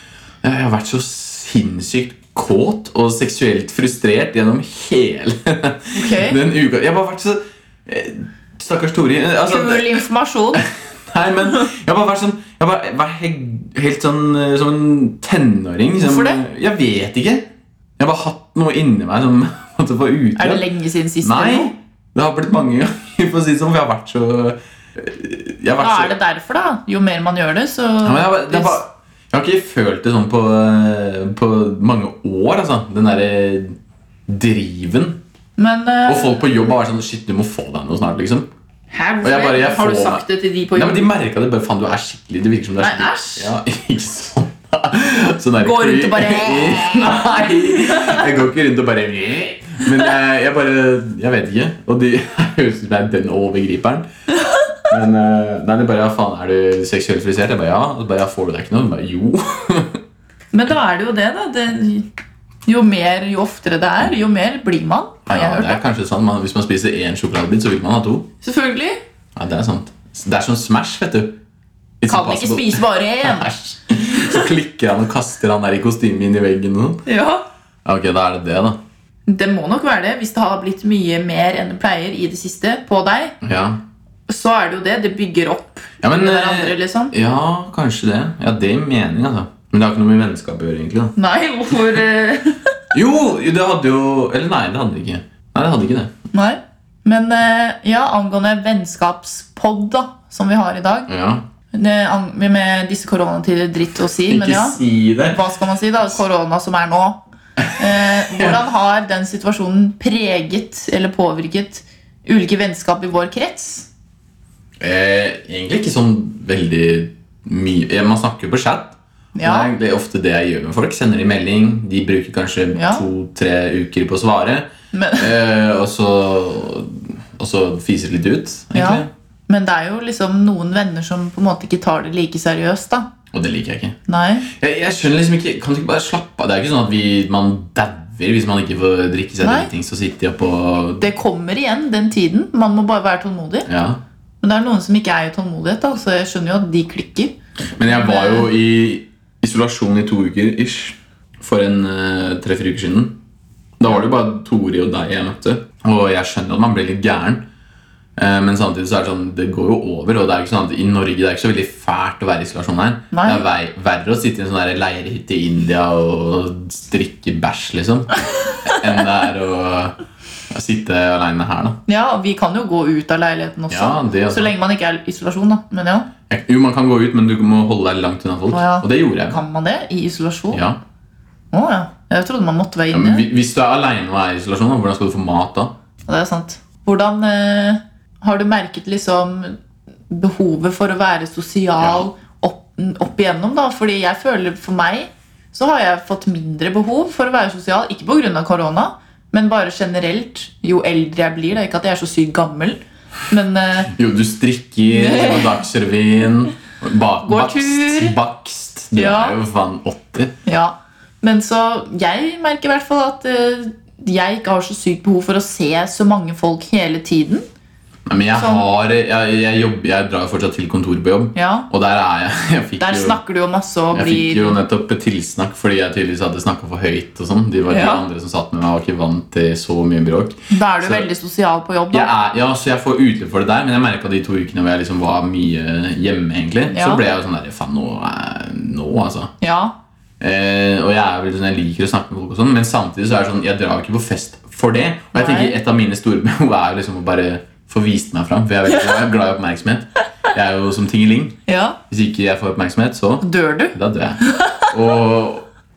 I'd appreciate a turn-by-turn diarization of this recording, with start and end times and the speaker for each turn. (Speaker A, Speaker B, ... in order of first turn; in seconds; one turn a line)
Speaker A: 0.4-9.9
Speaker B: 5.9-6.4
Speaker B: 9.5-10.6
Speaker A: 10.6-20.6
Speaker B: 16.0-16.4
Speaker B: 20.4-21.7
Speaker A: 21.2-26.1
Speaker B: 25.8-28.8
Speaker A: 28.0-33.8
Speaker A: 34.3-35.2
Speaker B: 35.6-36.4
Speaker A: 36.0-38.5
Speaker B: 38.9-41.1
Speaker A: 39.2-54.1
Speaker B: 42.8-43.5
Speaker B: 45.6-48.3
Speaker A: 54.8-60.0
Speaker B: 60.5-62.1
Speaker B: 62.6-65.8
Speaker A: 65.3-68.3
Speaker B: 68.4-69.0
Speaker A: 69.3-71.4
Speaker A: 72.0-77.0
Speaker B: 72.1-74.4
Speaker B: 77.0-77.5
Speaker A: 77.8-78.8
Speaker B: 79.3-83.4
Speaker A: 83.4-83.8
Speaker B: 84.3-87.1
Speaker A: 86.0-91.2
Speaker B: 91.2-92.7
Speaker A: 92.9-96.1
Speaker B: 96.3-101.1
Speaker A: 101.1-101.4
Speaker B: 101.7-107.2
Speaker A: 104.3-105.4
Speaker A: 107.6-108.6
Speaker B: 107.8-113.9
Speaker A: 114.8-129.1
Speaker B: 119.3-119.7
Speaker B: 122.7-123.0
Speaker B: 124.9-125.3
Speaker B: 128.7-133.1
Speaker A: 133.3-134.0
Speaker B: 134.1-134.5
Speaker A: 134.5-141.1
Speaker B: 139.4-139.7
Speaker B: 141.0-143.7
Speaker A: 143.7-144.0
Speaker B: 144.4-147.3
Speaker A: 147.8-153.2
Speaker B: 147.9-148.5
Speaker A: 153.8-157.4
Speaker A: 158.2-169.9
Speaker B: 163.1-163.4
Speaker A: 170.5-171.8
Speaker B: 171.9-176.1
Speaker A: 173.7-174.5
Speaker A: 176.3-179.4
Speaker B: 178.5-180.6
Speaker A: 180.5-180.8
Speaker B: 181.5-183.2
Speaker A: 182.9-185.7
Speaker B: 186.1-189.6
Speaker B: 190.1-203.9
Speaker A: 191.8-192.1
Speaker A: 203.9-210.3
Speaker B: 204.9-205.6
Speaker B: 207.2-208.2
Speaker B: 208.9-209.4
Speaker B: 210.4-217.4
Speaker A: 218.1-223.2
Speaker B: 218.3-218.6
Speaker B: 221.3-221.7
Speaker B: 222.8-224.6
Speaker A: 223.9-231.1
Speaker B: 227.7-228.0
Speaker B: 230.5-232.1
Speaker A: 231.9-239.3
Speaker B: 236.7-237.0
Speaker B: 239.4-239.7
Speaker A: 240.2-251.4
Speaker B: 245.1-245.6
Speaker B: 251.5-251.8
Speaker A: 251.9-255.5
Speaker B: 253.2-254.7